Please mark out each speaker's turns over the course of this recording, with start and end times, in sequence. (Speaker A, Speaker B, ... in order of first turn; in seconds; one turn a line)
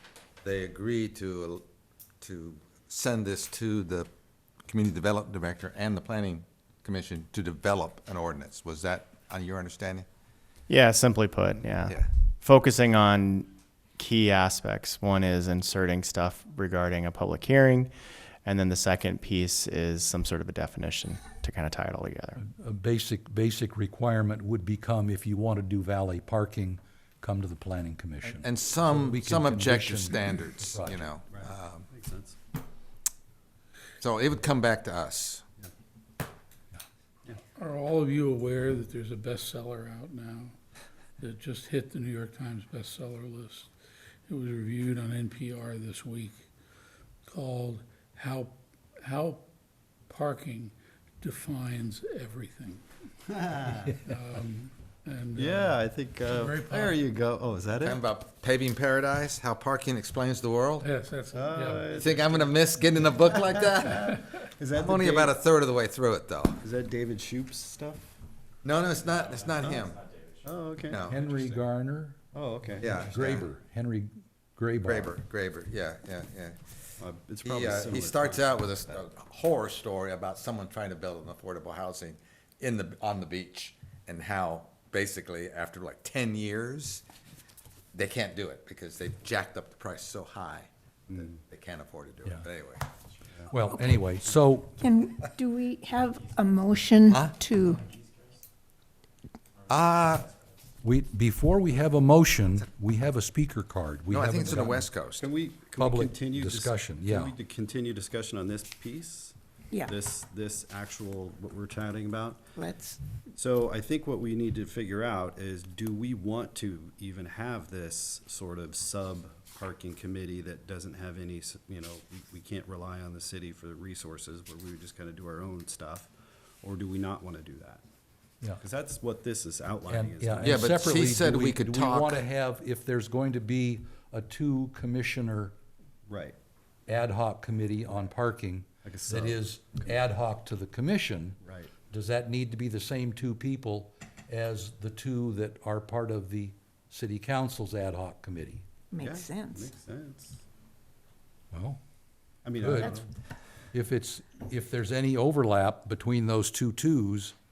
Speaker A: 0.4-1.6
Speaker A: 2.2-4.1
Speaker A: 4.7-10.1
Speaker B: 10.7-22.4
Speaker C: 22.4-31.1
Speaker A: 28.2-31.9
Speaker D: 31.4-32.4
Speaker A: 34.0-35.4
Speaker E: 37.6-40.5
Speaker E: 41.2-43.7
Speaker E: 44.3-46.4
Speaker E: 47.3-49.5
Speaker E: 50.1-57.0
Speaker D: 53.5-53.9
Speaker D: 55.4-58.0
Speaker A: 57.8-60.9
Speaker E: 60.8-62.3
Speaker D: 61.3-62.5
Speaker A: 62.0-64.2
Speaker D: 63.2-65.4
Speaker A: 64.7-66.6
Speaker D: 66.6-68.1
Speaker A: 68.6-70.0
Speaker D: 70.4-71.0
Speaker A: 70.9-71.6
Speaker C: 71.1-72.2
Speaker D: 72.3-73.0
Speaker A: 72.8-73.5
Speaker C: 73.0-75.1
Speaker A: 74.8-76.6
Speaker D: 77.0-79.0
Speaker A: 77.5-87.0
Speaker A: 87.9-92.8
Speaker C: 93.5-94.8
Speaker F: 94.8-97.9
Speaker A: 97.1-97.4
Speaker A: 99.7-100.3
Speaker C: 100.8-104.9
Speaker A: 104.1-105.3
Speaker D: 105.2-112.5
Speaker C: 105.8-107.3
Speaker F: 109.7-110.0
Speaker F: 112.6-113.0
Speaker D: 113.3-126.1
Speaker D: 126.6-127.8
Speaker D: 128.6-130.8
Speaker C: 129.9-135.5
Speaker A: 130.4-132.2
Speaker D: 136.1-136.4
Speaker C: 136.9-141.4
Speaker D: 138.8-139.4
Speaker D: 141.4-141.7
Speaker C: 141.9-148.7
Speaker F: 148.9-149.7
Speaker D: 149.0-150.4
Speaker C: 151.5-151.8
Speaker D: 152.4-153.1
Speaker C: 152.6-153.0
Speaker C: 153.7-157.3